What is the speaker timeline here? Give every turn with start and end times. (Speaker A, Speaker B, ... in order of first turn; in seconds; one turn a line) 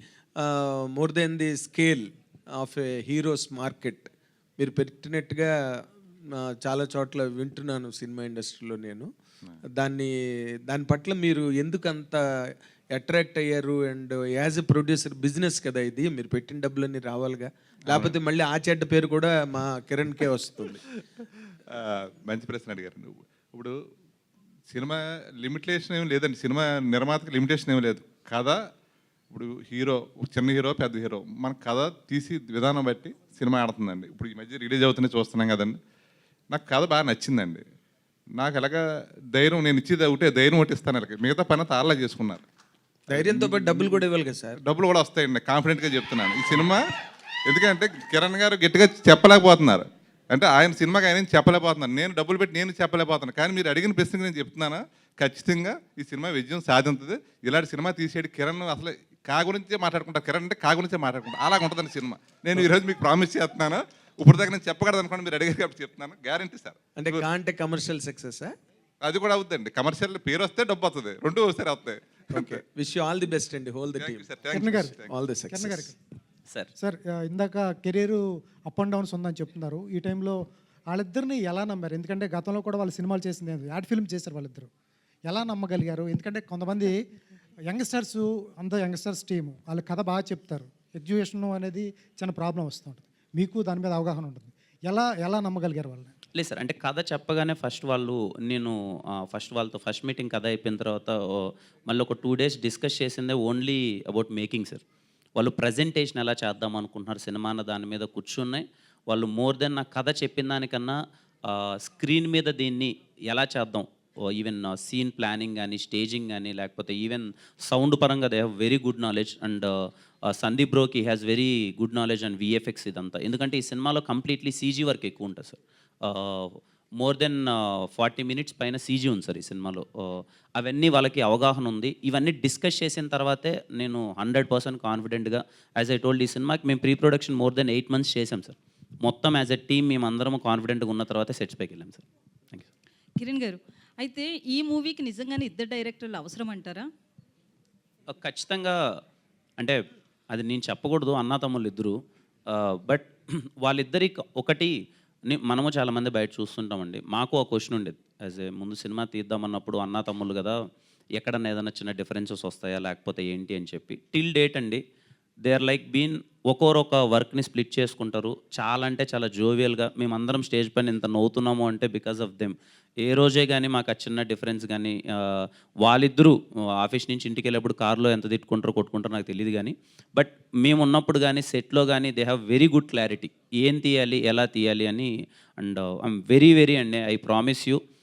Speaker A: 0.4-2.0
Speaker A: 2.6-5.5
Speaker A: 6.6-9.1
Speaker A: 9.8-10.1
Speaker A: 10.7-12.2
Speaker A: 12.9-20.8
Speaker B: 17.9-18.2
Speaker B: 21.7-23.7
Speaker B: 24.7-28.6
Speaker B: 29.3-35.8
Speaker B: 36.5-37.6
Speaker B: 38.4-38.8
Speaker B: 39.4-42.4
Speaker A: 43.1-44.6
Speaker B: 43.1-44.1
Speaker B: 44.6-46.8
Speaker B: 47.5-67.3
Speaker A: 67.0-68.5
Speaker B: 69.0-72.6
Speaker A: 72.3-74.4
Speaker B: 73.9-75.1
Speaker C: 74.5-75.0
Speaker A: 75.1-75.9
Speaker C: 75.5-75.9
Speaker C: 76.8-80.4
Speaker C: 80.9-84.7
Speaker C: 85.3-87.0
Speaker C: 87.7-96.1
Speaker D: 96.3-104.8
Speaker D: 105.4-111.0
Speaker D: 111.5-119.8
Speaker D: 120.3-142.7
Speaker E: 143.2-146.9
Speaker D: 148.1-148.8
Speaker D: 150.3-152.0
Speaker D: 152.5-154.7
Speaker D: 155.3-160.6
Speaker D: 161.2-164.8
Speaker D: 165.4-187.8